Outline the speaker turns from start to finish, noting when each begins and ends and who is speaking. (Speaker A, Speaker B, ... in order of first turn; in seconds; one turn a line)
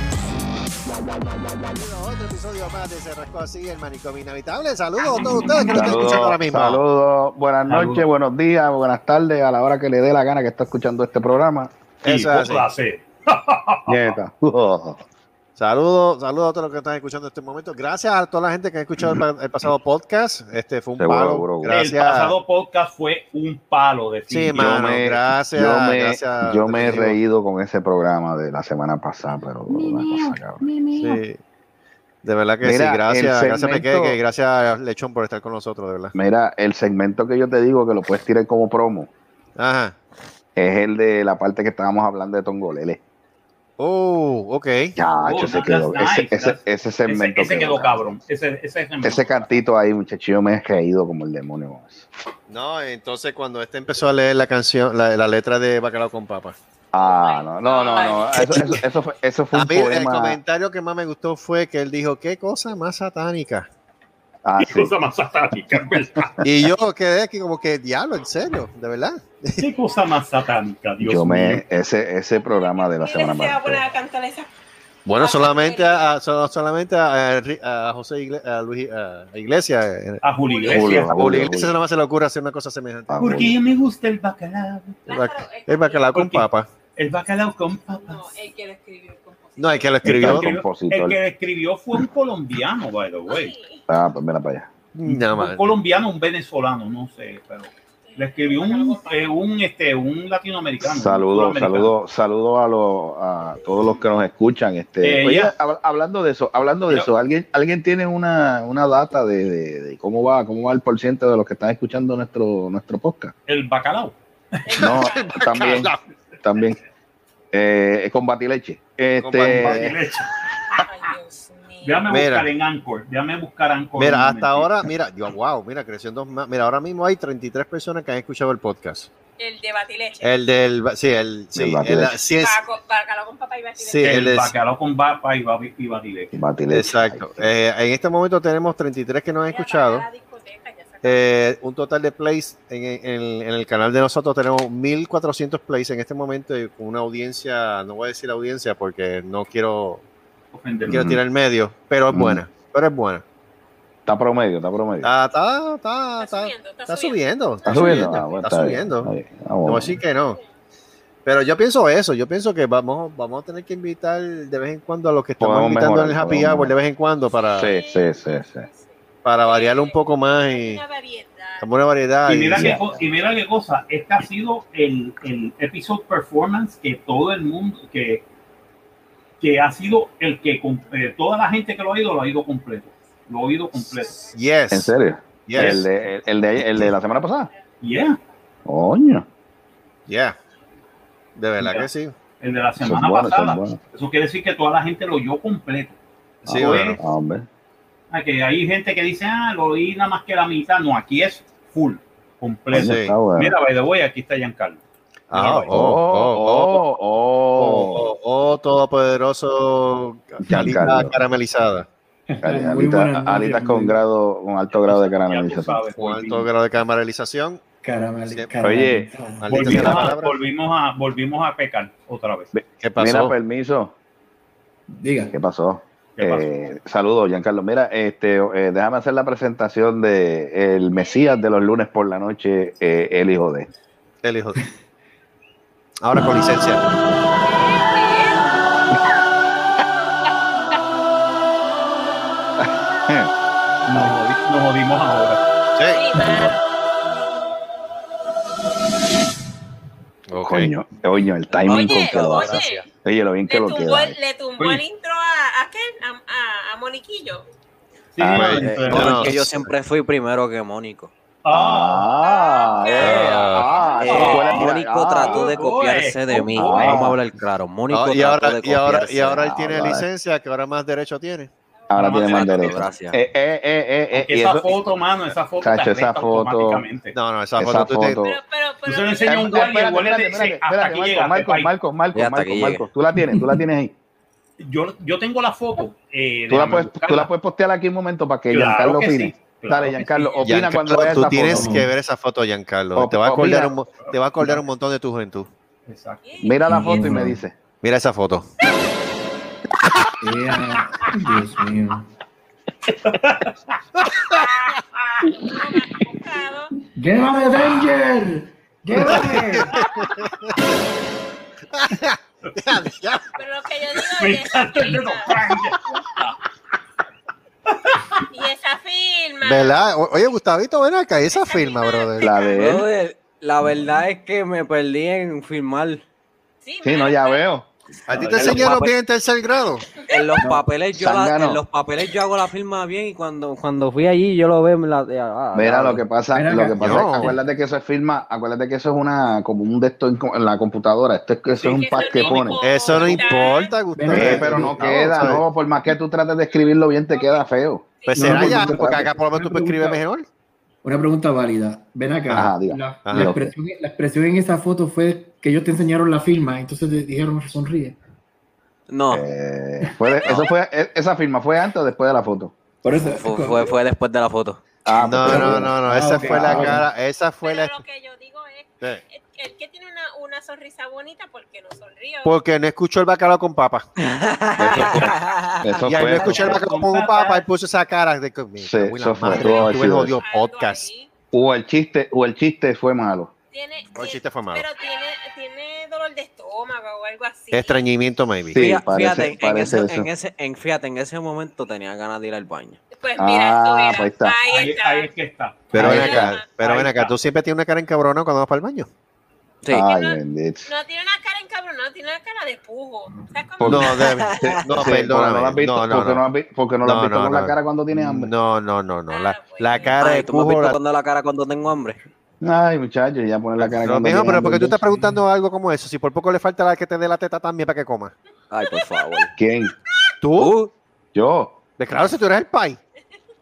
Speaker A: 1.7-6.8
Speaker B: 5.1-5.9
Speaker C: 5.7-11.7
Speaker B: 7.7-8.1
Speaker A: 12.0-12.8
Speaker B: 12.1-14.2
Speaker C: 13.9-15.0
Speaker A: 15.6-22.4
Speaker C: 19.0-19.2
Speaker C: 21.0-21.8
Speaker B: 21.7-24.8
Speaker A: 24.3-27.2
Speaker C: 24.6-30.7
Speaker A: 30.9-31.4
Speaker A: 32.2-36.1
Speaker C: 32.6-34.2
Speaker C: 36.1-39.1
Speaker A: 39.6-40.0
Speaker C: 40.6-43.0
Speaker A: 43.8-45.0
Speaker C: 45.0-48.1
Speaker B: 45.2-49.5
Speaker C: 49.0-52.1
Speaker A: 52.5-56.6
Speaker C: 56.9-60.4
Speaker D: 57.0-58.5
Speaker A: 59.5-63.7
Speaker C: 64.5-64.9
Speaker B: 64.6-66.4
Speaker A: 66.4-69.7
Speaker B: 69.6-71.6
Speaker C: 71.0-73.8
Speaker D: 72.4-74.5
Speaker A: 75.1-80.2
Speaker D: 75.2-76.1
Speaker B: 80.2-81.2
Speaker D: 80.5-81.0
Speaker C: 80.7-81.8
Speaker A: 80.9-83.2
Speaker C: 83.1-83.6
Speaker B: 83.2-85.1
Speaker D: 85.1-86.1
Speaker A: 85.1-86.7
Speaker B: 86.2-88.3
Speaker D: 88.0-89.9
Speaker A: 89.6-90.5
Speaker C: 90.0-91.2
Speaker B: 90.1-93.5
Speaker D: 93.3-93.8
Speaker C: 93.9-94.7
Speaker A: 95.0-95.8
Speaker B: 95.1-101.9
Speaker D: 98.0-99.3
Speaker C: 100.8-113.3
Speaker B: 105.0-105.5
Speaker B: 113.5-114.2
Speaker D: 114.7-115.8
Speaker C: 114.8-115.9
Speaker A: 114.9-116.0
Speaker C: 116.4-116.8
Speaker C: 117.5-120.0
Speaker A: 119.2-120.0
Speaker B: 119.6-120.3
Speaker D: 120.9-122.1
Speaker B: 121.8-124.7
Speaker A: 122.1-122.5
Speaker A: 124.0-129.1
Speaker D: 129.4-130.3
Speaker A: 130.2-132.6
Speaker C: 131.6-132.2
Speaker D: 132.4-134.2
Speaker A: 133.8-134.6
Speaker B: 134.0-136.3
Speaker C: 136.3-137.5
Speaker A: 136.7-140.1
Speaker D: 139.5-141.3
Speaker A: 141.0-150.0
Speaker B: 150.5-151.1
Speaker C: 150.9-151.2
Speaker A: 150.9-153.2
Speaker C: 152.1-152.4
Speaker C: 154.1-155.1
Speaker A: 155.0-159.1
Speaker D: 156.2-158.6
Speaker C: 157.6-160.0
Speaker A: 159.7-160.4
Speaker A: 161.2-167.7
Speaker C: 165.4-166.7
Speaker C: 167.6-168.7
Speaker D: 167.6-171.7
Speaker A: 169.2-170.8
Speaker A: 171.6-172.8
Speaker B: 172.3-178.2
Speaker C: 172.6-173.1
Speaker B: 179.4-184.3
Speaker A: 184.3-184.9
Speaker C: 184.7-187.5
Speaker A: 185.5-185.9
Speaker B: 185.6-185.9
Speaker B: 187.8-188.2
Speaker C: 188.7-189.3
Speaker A: 190.1-190.4
Speaker A: 191.4-192.2
Speaker B: 191.6-196.0
Speaker C: 192.8-193.8
Speaker A: 196.4-197.0
Speaker C: 196.5-197.5
Speaker B: 196.5-197.0
Speaker B: 198.1-205.8
Speaker C: 202.7-203.6
Speaker A: 202.8-203.2
Speaker A: 205.3-206.8
Speaker C: 205.7-208.1
Speaker A: 207.6-211.9
Speaker C: 210.4-211.2
Speaker E: 212.3-214.0
Speaker C: 212.4-215.8
Speaker B: 214.8-216.5
Speaker A: 216.0-217.6
Speaker E: 217.8-220.1
Speaker C: 218.6-219.1
Speaker A: 219.4-220.4
Speaker B: 219.5-222.5
Speaker C: 222.5-223.9
Speaker A: 222.8-223.3
Speaker E: 224.9-225.3
Speaker C: 225.3-233.7
Speaker B: 226.2-226.5
Speaker D: 230.9-231.5
Speaker A: 234.2-234.6
Speaker A: 236.0-236.9
Speaker D: 237.4-238.5
Speaker C: 242.6-243.3
Speaker B: 243.9-245.4
Speaker A: 245.8-246.0
Speaker D: 245.9-246.7
Speaker C: 246.2-246.6
Speaker A: 250.3-250.7
Speaker C: 250.4-254.2
Speaker F: 251.7-252.6
Speaker D: 251.7-252.9
Speaker D: 253.5-257.5
Speaker B: 258.1-259.4
Speaker C: 258.2-259.4
Speaker A: 258.4-259.7
Speaker F: 258.6-261.1
Speaker B: 261.4-262.2
Speaker C: 261.5-265.5
Speaker D: 262.2-264.7
Speaker A: 263.0-263.7
Speaker B: 263.0-267.1
Speaker F: 264.0-269.6
Speaker C: 266.6-267.2
Speaker A: 267.9-271.5
Speaker C: 269.5-270.1
Speaker D: 271.8-272.2
Speaker C: 271.9-274.7
Speaker B: 271.9-272.8
Speaker F: 272.3-273.2
Speaker B: 274.1-277.1
Speaker C: 275.6-276.8
Speaker A: 277.1-278.2
Speaker C: 277.6-278.4
Speaker D: 278.2-280.1
Speaker B: 278.9-281.7
Speaker C: 279.2-283.9
Speaker F: 282.1-282.9
Speaker E: 283.1-283.6
Speaker B: 284.6-287.3
Speaker C: 286.5-291.7
Speaker B: 288.5-290.4
Speaker A: 290.4-295.5
Speaker E: 291.4-291.9
Speaker C: 292.9-293.7
Speaker B: 294.0-294.7
Speaker B: 295.9-296.2
Speaker D: 296.2-297.2
Speaker C: 296.4-297.6
Speaker E: 296.7-297.4
Speaker A: 297.8-298.5
Speaker E: 300.2-302.1
Speaker B: 302.9-303.7
Speaker D: 304.3-304.8
Speaker D: 305.4-306.7
Speaker E: 306.9-309.7
Speaker A: 308.9-310.7
Speaker B: 309.8-310.1
Speaker A: 311.7-313.3
Speaker D: 313.4-315.4
Speaker B: 314.1-316.4
Speaker B: 317.7-318.2
Speaker D: 318.3-319.8
Speaker A: 319.4-322.3
Speaker D: 321.4-322.8
Speaker C: 322.2-322.9
Speaker F: 322.6-326.0
Speaker C: 323.6-324.0
Speaker D: 326.6-327.4
Speaker C: 326.8-327.7
Speaker A: 328.1-329.9
Speaker F: 328.1-328.9
Speaker C: 328.3-328.7
Speaker F: 330.1-336.0
Speaker C: 331.0-331.6
Speaker C: 335.5-343.3
Speaker E: 336.3-337.4
Speaker A: 336.8-337.3
Speaker D: 341.5-343.7
Speaker A: 342.5-345.4
Speaker E: 343.9-345.4
Speaker C: 344.1-349.1
Speaker D: 347.1-347.4
Speaker A: 348.1-350.3
Speaker E: 348.1-350.0
Speaker E: 350.8-358.0
Speaker C: 352.3-353.5
Speaker A: 353.1-353.3
Speaker F: 358.9-359.3
Speaker C: 359.1-362.5
Speaker D: 360.0-360.5
Speaker E: 362.8-363.8
Speaker F: 363.0-364.6
Speaker C: 364.9-366.8
Speaker A: 365.0-367.8
Speaker E: 365.2-366.9
Speaker D: 367.4-372.4
Speaker A: 372.2-373.9
Speaker F: 374.0-375.8
Speaker D: 374.5-375.3
Speaker C: 374.6-376.6
Speaker A: 375.9-380.9
Speaker B: 376.2-377.4
Speaker C: 378.6-380.2
Speaker D: 379.3-381.1
Speaker C: 381.3-383.3
Speaker D: 383.5-387.8
Speaker A: 384.0-384.6
Speaker A: 387.5-388.6
Speaker C: 388.5-390.1
Speaker F: 388.6-392.8
Speaker D: 392.9-395.1
Speaker C: 393.2-394.4
Speaker B: 394.5-397.2
Speaker A: 395.7-398.9
Speaker C: 395.8-396.3
Speaker D: 395.8-396.5
Speaker C: 399.7-400.7
Speaker D: 399.7-404.5
Speaker C: 403.6-408.3
Speaker A: 403.6-406.2
Speaker A: 406.8-410.8
Speaker D: 409.1-410.0
Speaker F: 410.0-412.0
Speaker C: 412.4-414.8
Speaker A: 413.6-418.1
Speaker E: 414.4-415.2
Speaker F: 418.5-419.3
Speaker D: 418.6-419.3
Speaker C: 419.4-419.7
Speaker A: 420.2-420.5
Speaker F: 420.4-420.7
Speaker C: 421.1-421.6
Speaker A: 421.8-422.8